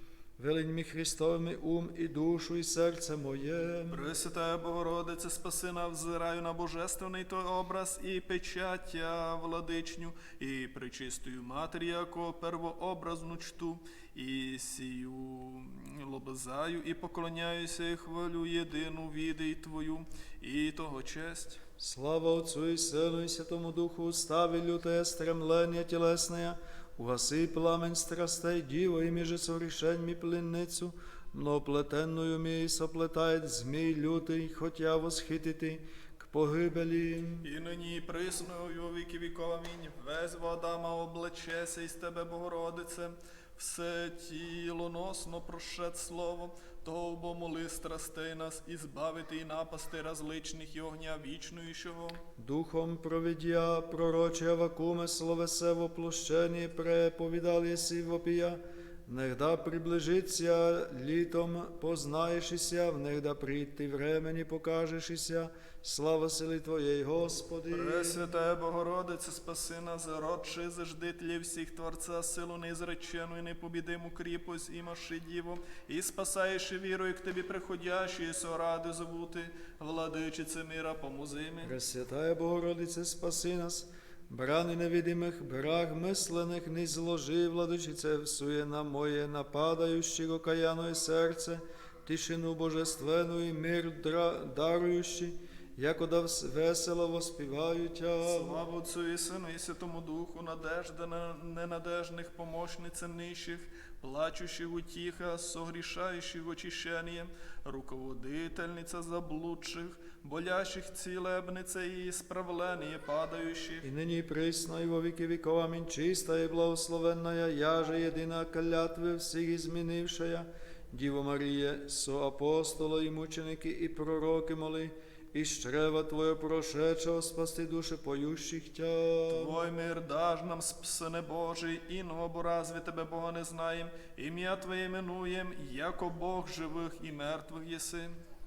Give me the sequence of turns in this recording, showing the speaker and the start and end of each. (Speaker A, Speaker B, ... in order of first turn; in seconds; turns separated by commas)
Speaker A: 0.4-4.1, Speaker B: 3.9-21.6, Speaker A: 21.8-37.5, Speaker B: 37.4-52.2, Speaker A: 52.4-68.2, Speaker B: 67.7-81.7, Speaker A: 81.6-98.6, Speaker B: 98.2-113.9, Speaker A: 113.8-129.6, Speaker B: 129.3-138.2